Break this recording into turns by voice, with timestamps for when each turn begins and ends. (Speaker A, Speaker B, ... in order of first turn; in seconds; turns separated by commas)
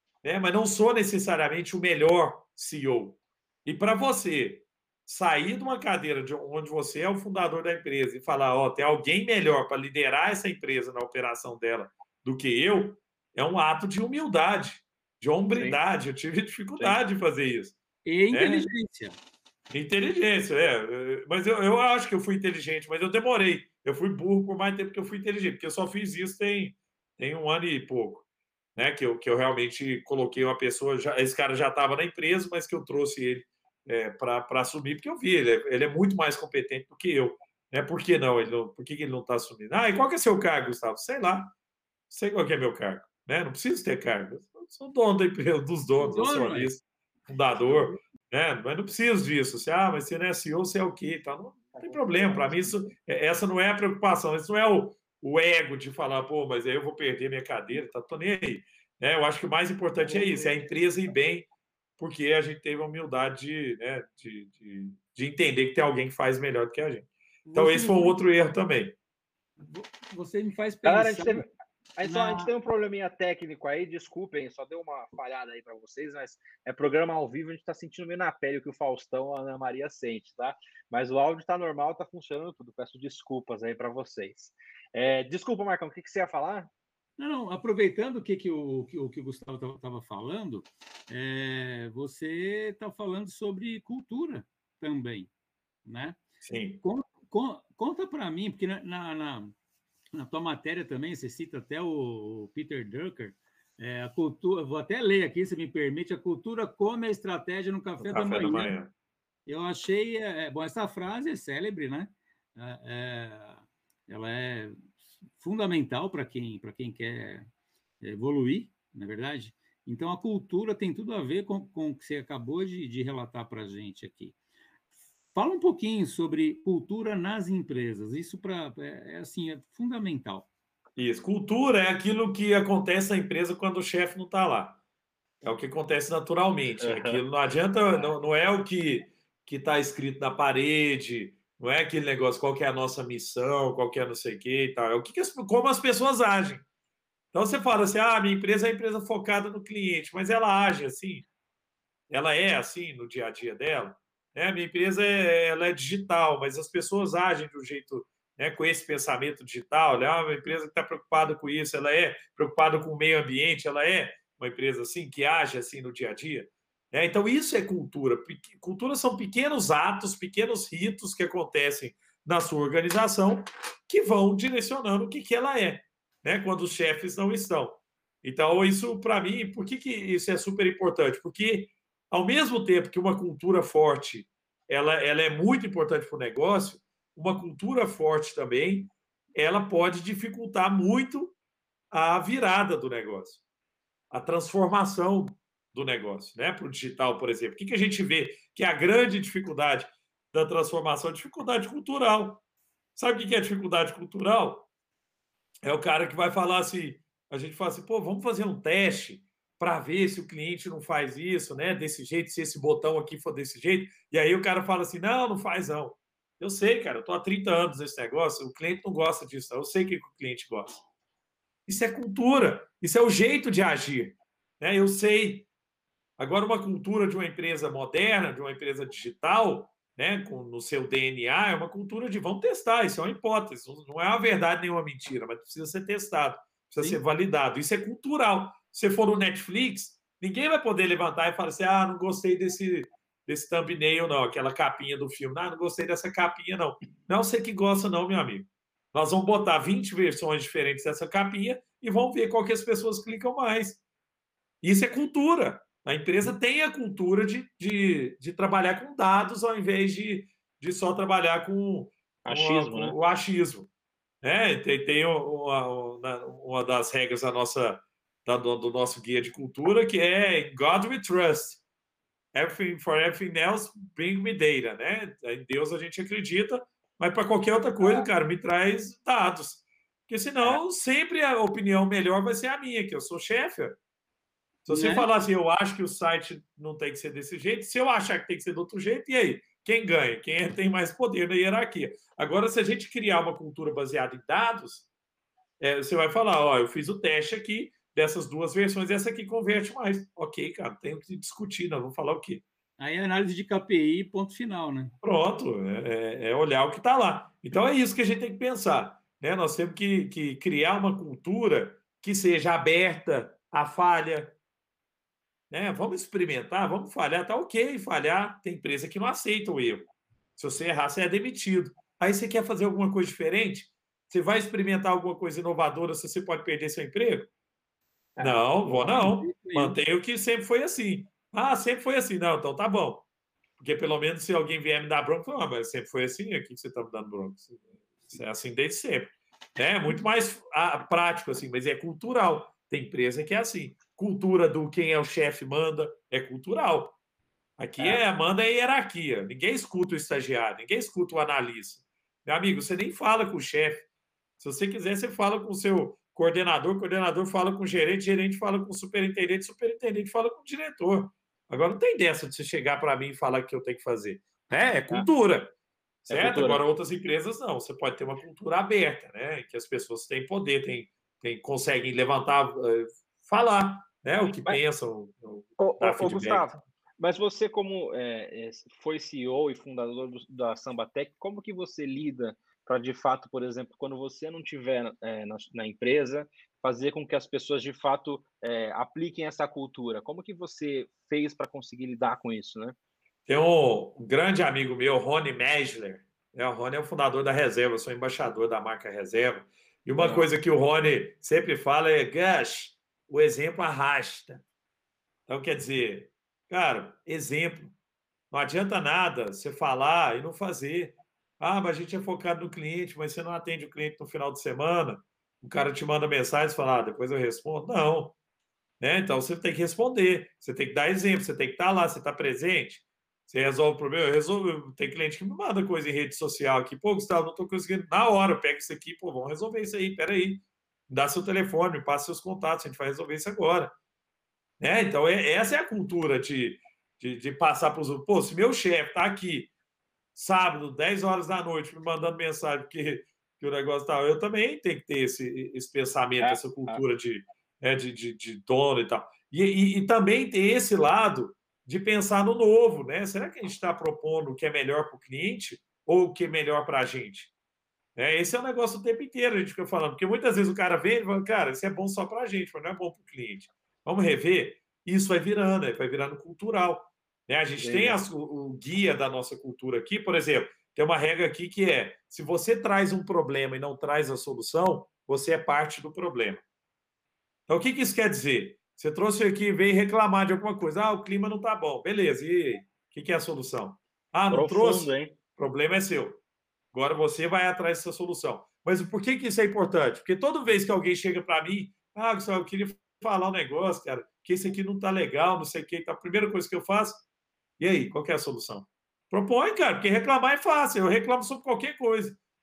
Speaker A: 0.2-17.8, Speaker B: 15.5-15.8, Speaker C: 18.1-19.1, Speaker A: 18.3-18.7, Speaker A: 19.7-41.5, Speaker A: 42.1-61.5, Speaker C: 46.0-46.7, Speaker C: 47.7-48.0, Speaker B: 51.8-52.7, Speaker B: 60.0-60.7, Speaker A: 62.0-69.0, Speaker C: 67.5-68.2, Speaker C: 69.6-71.5, Speaker B: 70.8-86.7, Speaker C: 72.0-72.5, Speaker C: 87.2-95.3, Speaker C: 95.8-96.2, Speaker A: 96.4-96.8, Speaker C: 96.8-99.6, Speaker C: 100.1-108.7, Speaker A: 108.0-108.9, Speaker C: 109.5-117.5, Speaker C: 118.0-124.4, Speaker C: 125.3-130.5, Speaker A: 131.0-134.8, Speaker A: 135.4-146.6, Speaker B: 136.8-137.2, Speaker A: 147.3-151.3, Speaker A: 152.1-191.3, Speaker A: 191.9-193.4, Speaker A: 194.1-202.4, Speaker A: 202.9-204.7, Speaker A: 205.6-220.8, Speaker A: 221.7-225.5, Speaker A: 226.2-253.8, Speaker A: 254.6-263.7, Speaker B: 262.2-262.9, Speaker A: 264.2-271.6, Speaker A: 272.3-283.8, Speaker B: 277.8-278.1, Speaker A: 284.6-294.9, Speaker C: 284.7-285.1, Speaker A: 295.6-302.4, Speaker C: 302.8-304.9, Speaker A: 305.0-314.4, Speaker A: 315.5-327.3, Speaker B: 328.1-329.0, Speaker A: 328.2-333.1, Speaker C: 328.8-329.8, Speaker A: 333.6-347.0, Speaker A: 347.6-353.9, Speaker A: 354.4-365.5, Speaker A: 366.1-376.6, Speaker B: 366.1-366.6, Speaker B: 375.6-392.8, Speaker A: 393.3-404.4, Speaker B: 400.0-400.3, Speaker A: 405.3-407.8, Speaker A: 408.3-418.1, Speaker A: 418.8-433.7, Speaker A: 434.6-439.5, Speaker A: 440.1-457.3, Speaker B: 446.2-446.8, Speaker A: 458.0-476.4, Speaker B: 467.6-468.0, Speaker A: 477.5-486.2, Speaker B: 484.3-485.2, Speaker A: 486.7-497.0, Speaker A: 497.6-502.2